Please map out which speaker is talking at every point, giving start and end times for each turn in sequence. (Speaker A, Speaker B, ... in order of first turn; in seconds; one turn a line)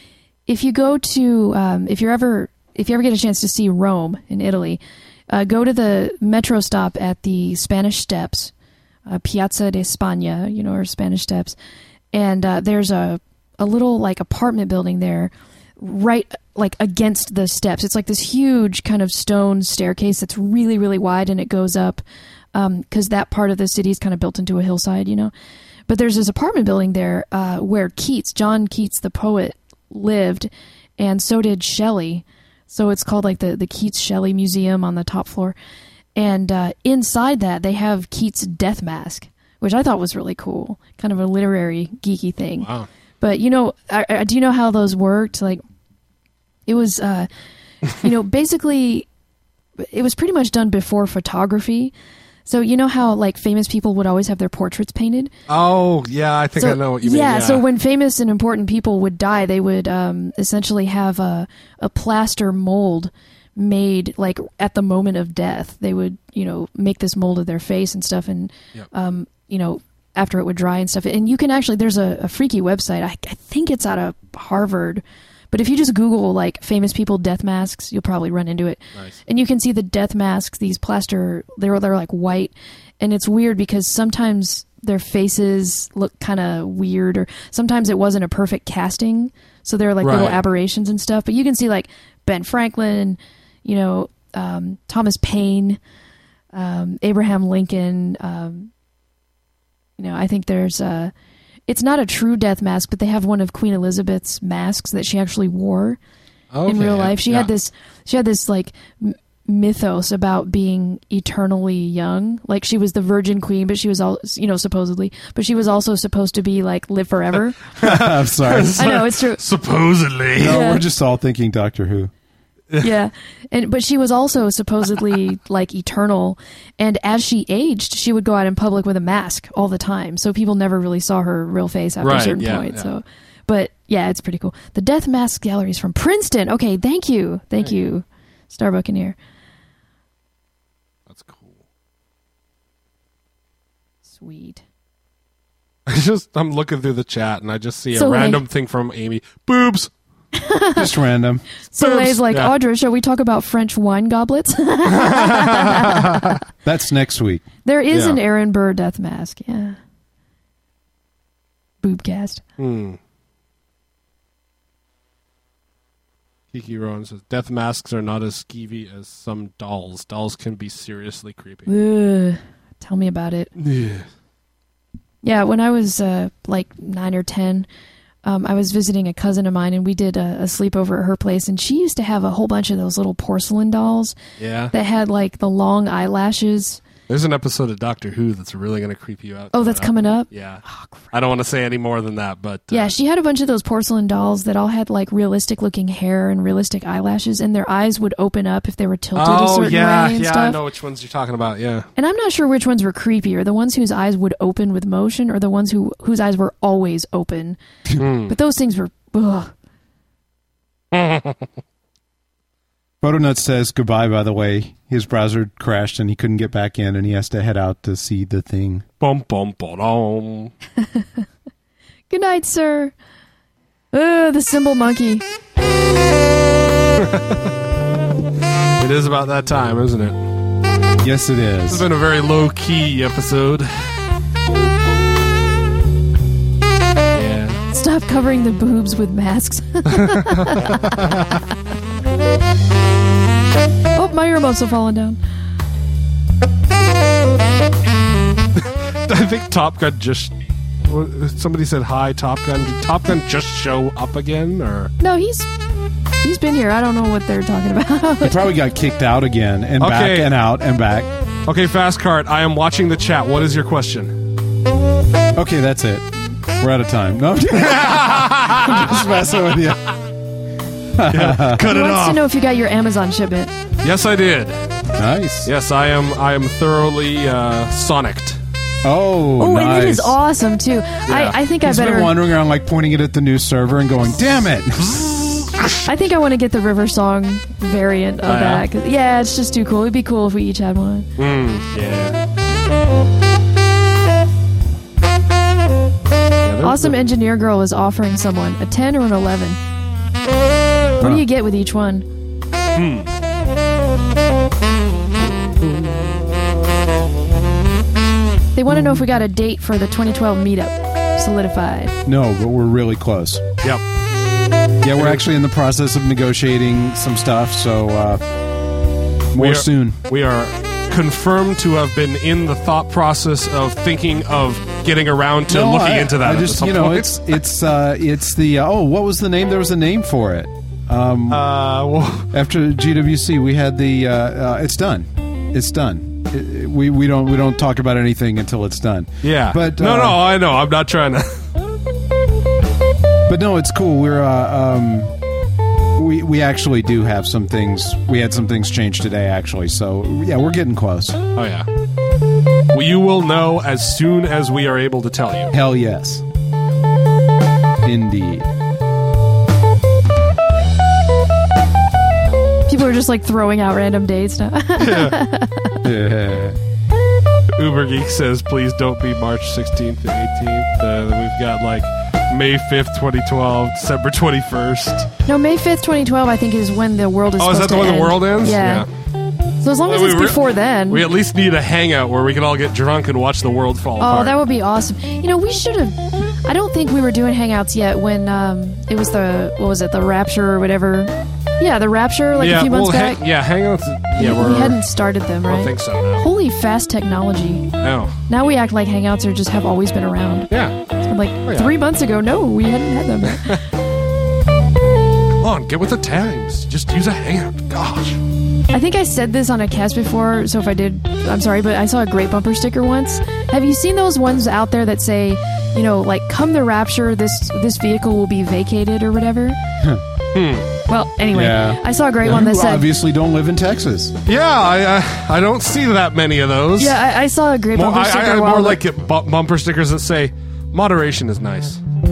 Speaker A: 0.5-8.5
Speaker A: 9.1-11.5
Speaker A: 12.1-22.0
Speaker A: 22.5-25.3
Speaker A: 25.9-35.5
Speaker A: 36.1-42.7
Speaker B: 42.6-42.9
Speaker A: 43.2-45.6
Speaker A: 46.7-47.3
Speaker A: 47.9-49.1
Speaker A: 49.8-51.9
Speaker A: 52.5-55.3
Speaker B: 55.5-57.6
Speaker A: 56.6-95.8
Speaker B: 90.0-90.4
Speaker A: 96.5-98.7
Speaker A: 100.0-101.1
Speaker A: 101.7-106.0
Speaker B: 106.5-107.5
Speaker A: 106.7-117.7
Speaker B: 117.8-120.6
Speaker C: 117.8-118.8
Speaker A: 118.7-119.4
Speaker C: 120.4-122.1
Speaker A: 120.5-120.8
Speaker A: 122.8-139.2
Speaker B: 132.0-132.9
Speaker B: 141.1-141.6
Speaker A: 144.1-144.6
Speaker B: 145.9-149.9
Speaker A: 147.9-148.4
Speaker A: 150.3-150.9
Speaker C: 150.8-151.4
Speaker A: 151.7-156.3
Speaker B: 151.8-152.5
Speaker B: 154.9-156.2
Speaker C: 156.6-157.4
Speaker A: 157.6-159.8
Speaker B: 157.9-158.2
Speaker A: 161.8-162.4
Speaker B: 162.6-163.0
Speaker B: 166.5-171.7
Speaker A: 171.7-173.5
Speaker B: 173.6-174.1
Speaker A: 175.2-177.7
Speaker A: 178.2-184.2
Speaker B: 184.4-184.7
Speaker A: 184.7-186.8
Speaker B: 187.1-192.9
Speaker A: 189.5-191.1
Speaker A: 192.7-200.6
Speaker B: 199.1-201.9
Speaker A: 202.0-207.6
Speaker B: 208.0-208.3
Speaker A: 208.2-209.5
Speaker B: 210.9-211.5
Speaker C: 213.0-218.8
Speaker B: 219.0-220.5
Speaker A: 220.9-221.2
Speaker A: 222.1-222.9
Speaker A: 223.9-225.2
Speaker B: 227.0-227.5
Speaker B: 228.8-230.2
Speaker C: 231.0-231.9
Speaker B: 231.7-233.7
Speaker B: 237.1-237.6
Speaker A: 237.7-240.9
Speaker B: 239.9-241.2
Speaker A: 243.9-245.2
Speaker B: 248.6-254.9
Speaker A: 255.0-255.5
Speaker A: 256.2-258.3
Speaker C: 258.2-261.1
Speaker B: 259.8-260.3
Speaker B: 261.5-264.2
Speaker C: 265.4-269.8
Speaker B: 267.5-269.8
Speaker C: 270.9-271.6
Speaker B: 271.1-272.2
Speaker A: 271.6-273.5
Speaker B: 273.8-274.6
Speaker C: 275.0-275.5
Speaker B: 275.4-278.4
Speaker C: 278.8-280.2
Speaker A: 279.4-282.1
Speaker B: 281.1-281.4
Speaker C: 281.6-285.0
Speaker B: 284.8-285.8
Speaker A: 285.8-291.1
Speaker B: 288.2-288.6
Speaker B: 291.2-292.2
Speaker B: 296.4-297.0
Speaker A: 296.6-299.6
Speaker A: 301.0-302.1
Speaker B: 302.8-303.1
Speaker B: 305.6-306.1
Speaker A: 308.5-311.9
Speaker C: 312.0-313.4
Speaker C: 314.8-318.2
Speaker B: 314.9-315.2
Speaker C: 319.3-320.0
Speaker B: 319.3-327.1
Speaker C: 325.5-331.4
Speaker B: 331.3-332.3
Speaker C: 332.3-340.2
Speaker B: 339.2-341.4
Speaker C: 343.3-345.2
Speaker C: 345.9-351.2
Speaker B: 351.4-351.7
Speaker B: 352.7-355.5
Speaker C: 355.5-356.2
Speaker C: 357.8-358.5
Speaker A: 362.7-365.8
Speaker B: 364.8-365.2
Speaker C: 365.8-366.6
Speaker B: 367.6-375.1
Speaker A: 375.2-378.9
Speaker B: 377.4-378.9
Speaker A: 379.6-381.0
Speaker B: 379.8-384.4
Speaker A: 384.0-393.2
Speaker B: 392.4-394.8
Speaker A: 394.2-397.7
Speaker B: 395.4-396.2
Speaker B: 397.8-398.2
Speaker A: 398.3-400.5
Speaker B: 400.5-400.8
Speaker A: 401.0-403.6
Speaker B: 401.4-401.7
Speaker B: 403.2-403.6
Speaker B: 405.4-408.2
Speaker A: 408.7-419.6
Speaker B: 420.3-420.7
Speaker A: 420.9-422.9
Speaker C: 421.3-424.1
Speaker B: 424.2-427.0
Speaker A: 426.8-428.8
Speaker B: 427.7-431.8